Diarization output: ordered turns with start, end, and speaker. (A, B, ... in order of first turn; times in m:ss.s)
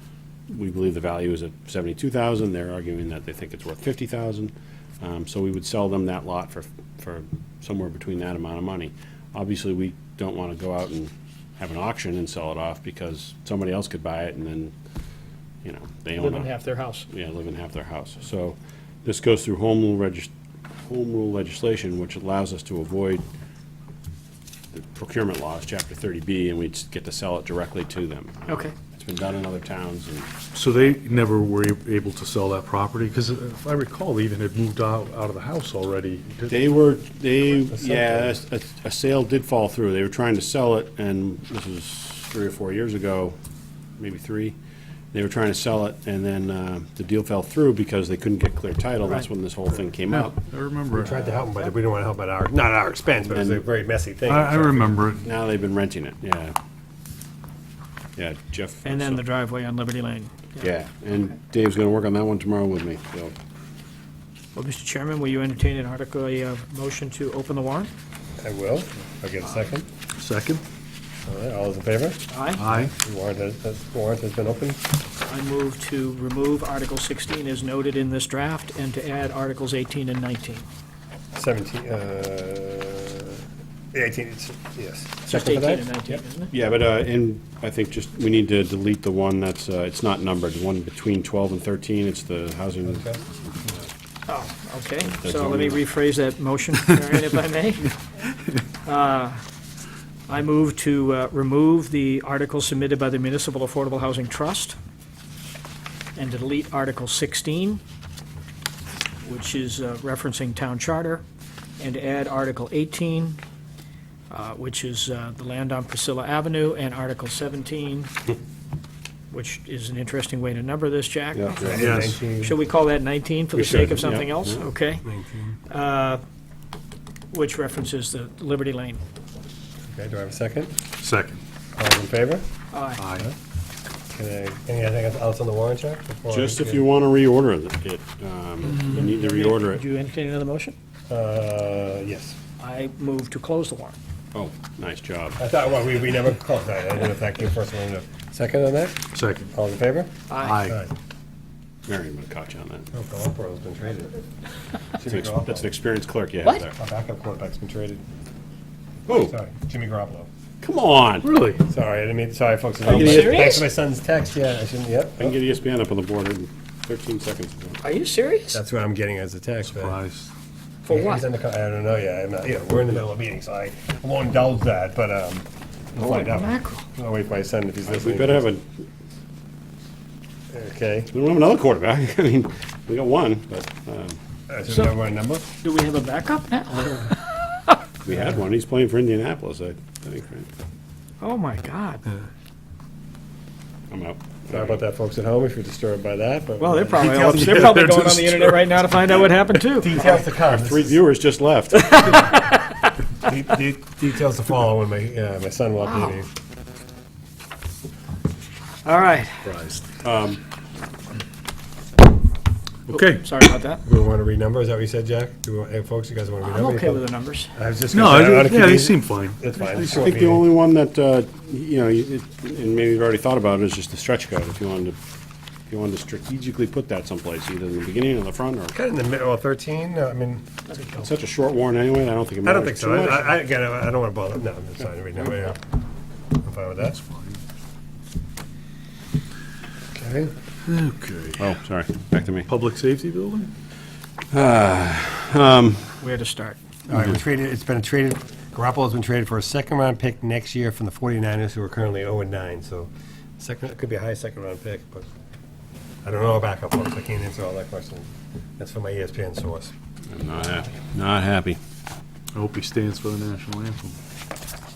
0:00.5-0:14.7 A
0:15.6-0:16.5 A
0:16.2-0:17.1 B
0:17.1-0:20.3 A
0:20.8-0:23.2 A
0:24.7-0:30.3 A
0:28.5-0:28.7 B
0:30.5-0:36.6 C
0:36.5-0:43.4 A
0:37.7-0:38.3 D
0:44.0-0:44.6 A
0:45.1-0:50.4 A
0:50.1-0:51.5 C
0:50.9-0:54.8 D
0:53.3-0:53.6 A
0:54.3-0:55.3 C
0:55.2-0:56.5 A
0:58.2-0:59.2 A
0:58.8-1:00.7 B
1:00.6-1:03.3 A
1:04.5-1:07.9 B
1:08.4-1:09.9 D
1:10.2-1:10.6 C
1:11.2-1:14.8 D
1:12.3-1:12.6 B
1:12.6-1:12.9 C
1:15.2-1:20.7 B
1:21.3-1:26.2 D
1:25.3-1:26.5 B
1:26.5-1:33.2 A
1:34.3-1:37.9 B
1:35.0-1:35.8 A
1:38.8-1:39.4 B
1:40.3-1:44.8 B
1:46.2-1:47.8 B
1:49.2-1:51.2 B
1:51.8-1:53.4 B
1:54.3-1:58.1 B
1:59.3-2:05.0 B
2:01.3-2:02.1 A
2:01.6-2:02.5 D
2:01.7-2:02.1 C
2:03.5-2:04.7 A
2:05.0-2:05.5 D
2:05.7-2:06.2 B
2:07.3-2:09.0 B
2:09.9-2:10.7 D
2:11.0-2:11.4 C
2:11.8-2:12.4 D
2:12.7-2:13.1 B
2:13.0-2:13.3 C
2:14.1-2:16.8 D
2:16.3-2:19.8 A
2:18.8-2:20.8 B
2:21.1-2:22.4 D
2:22.6-2:24.0 B
2:24.3-2:25.4 A
2:25.4-2:29.0 D
2:29.1-2:29.5 C
2:29.5-2:30.9 D
2:30.3-2:30.6 B
2:30.4-2:30.8 C
2:31.9-2:32.9 A
2:32.9-2:34.2 D
2:35.0-2:35.7 D
2:35.0-2:36.7 A
2:36.8-2:38.0 D
2:39.1-2:39.3 A
2:39.1-2:40.3 D
2:40.6-2:41.3 A
2:41.2-2:41.6 C
2:41.6-2:45.4 D
2:42.9-2:43.4 A
2:42.9-2:43.7 B
2:45.2-2:47.8 A
2:47.8-2:48.6 B
2:48.5-2:50.0 D
2:49.6-2:50.3 C
2:50.8-2:51.2 B
2:50.9-2:58.5 D
2:56.0-2:56.8 B
2:57.8-2:58.7 A
3:00.5-3:01.1 D
3:01.1-3:04.2 A
3:04.5-3:05.5 D
3:05.6-3:07.8 B
3:08.0-3:10.5 A
3:11.2-3:12.0 B
3:13.9-3:14.8 A
3:14.5-3:17.6 D
3:16.6-3:20.0 B
3:16.9-3:18.9 C
3:19.8-3:21.0 D
3:20.0-3:22.1 A
3:21.7-3:22.9 B
3:23.2-3:26.3 D
3:25.8-3:26.2 B
3:28.8-3:29.4 B
3:29.4-3:29.9 C
3:30.0-3:30.4 A
3:32.9-3:33.3 C
3:32.9-3:33.8 B
3:33.8-3:40.5 D
3:36.4-3:37.5 B
3:37.9-3:40.0 C
3:39.9-3:45.0 A
3:45.7-3:48.7 A
3:48.7-3:50.4 D
3:50.7-3:51.1 B
3:51.0-3:53.4 A
3:52.4-3:55.6 D
3:56.3-3:57.0 D
3:57.0-3:57.4 C
3:59.9-4:00.3 D
4:00.6-4:01.5 C
4:01.4-4:02.5 A
4:02.4-4:03.5 C
4:04.3-4:06.0 A
4:06.0-4:06.6 B
4:06.9-4:15.1 D
4:16.0-4:19.7 D
4:20.1-4:21.6 A
4:22.3-4:24.0 C